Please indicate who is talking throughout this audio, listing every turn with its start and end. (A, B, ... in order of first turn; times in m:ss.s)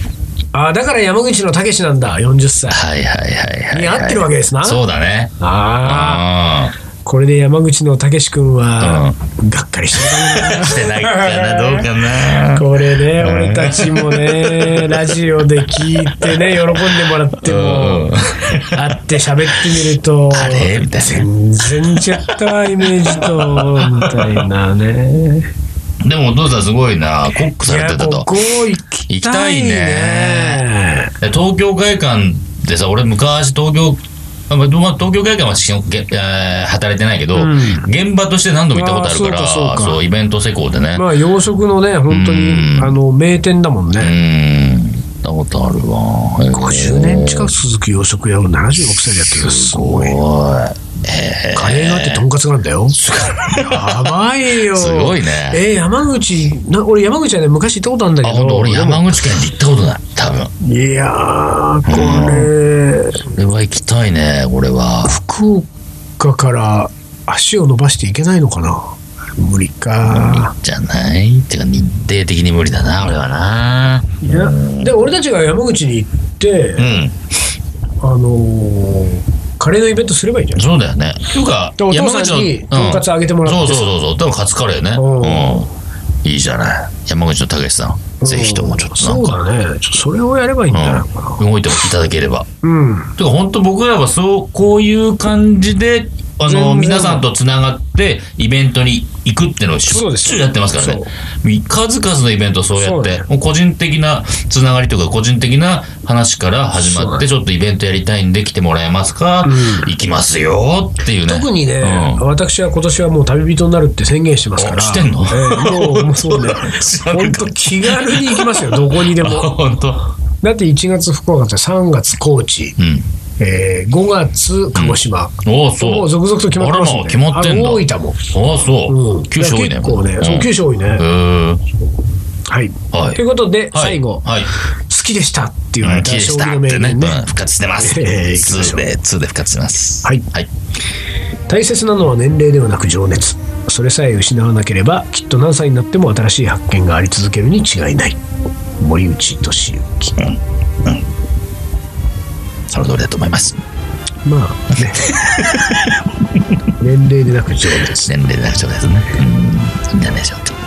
0:00.5-0:02.8 A
0:02.7-0:06.7 B
0:03.7-0:04.8 A
0:05.4-0:06.2 A
0:07.0-0:25.5 A
0:08.8-0:09.2 B
0:10.0-0:15.1 B
0:15.9-0:19.0 B
0:20.3-0:21.3 B
0:21.9-0:24.4 B
0:26.0-0:28.4 B
0:27.6-0:31.1 A
0:29.1-0:30.6 B
0:31.2-0:41.1 B
0:37.3-0:37.9 A
0:38.7-0:40.0 A
0:40.9-0:44.1 A
0:42.1-0:43.0 B
0:44.0-0:47.5 B
0:46.5-0:50.2 A
0:49.2-0:52.2 B
0:51.5-0:59.2 A
0:53.0-0:55.6 B
0:58.2-1:00.5 B
1:00.6-1:03.2 A
1:01.8-1:02.5 B
1:03.2-1:05.1 B
1:05.0-1:05.7 A
1:06.2-1:10.5 A
1:10.0-1:15.0 B
1:14.2-1:17.0 A
1:16.8-1:17.1 B
1:18.0-1:20.6 A
1:20.5-1:25.7 B
1:21.8-1:23.9 A
1:24.9-1:25.7 A
1:26.2-1:29.4 B
1:28.2-1:31.4 A
1:30.7-1:32.5 B
1:32.6-1:33.2 A
1:33.2-1:52.2 B
1:36.4-1:37.2 A
1:39.9-1:41.1 A
1:42.8-1:43.2 A
1:46.7-1:47.3 A
1:49.4-1:49.9 A
1:51.3-1:59.6 A
1:54.6-2:00.0 B
2:00.4-2:02.8 A
2:02.8-2:03.1 B
2:03.4-2:08.2 A
2:04.7-2:11.6 B
2:08.9-2:11.1 A
2:12.5-2:14.2 A
2:12.9-2:13.2 B
2:13.7-2:14.5 B
2:14.9-2:18.9 A
2:15.8-2:20.5 B
2:21.5-2:28.2 A
2:28.8-2:30.4 A
2:30.2-2:31.0 B
2:32.7-2:33.6 B
2:34.2-2:35.1 A
2:34.9-2:36.6 B
2:36.8-2:38.1 A
2:37.7-2:40.6 B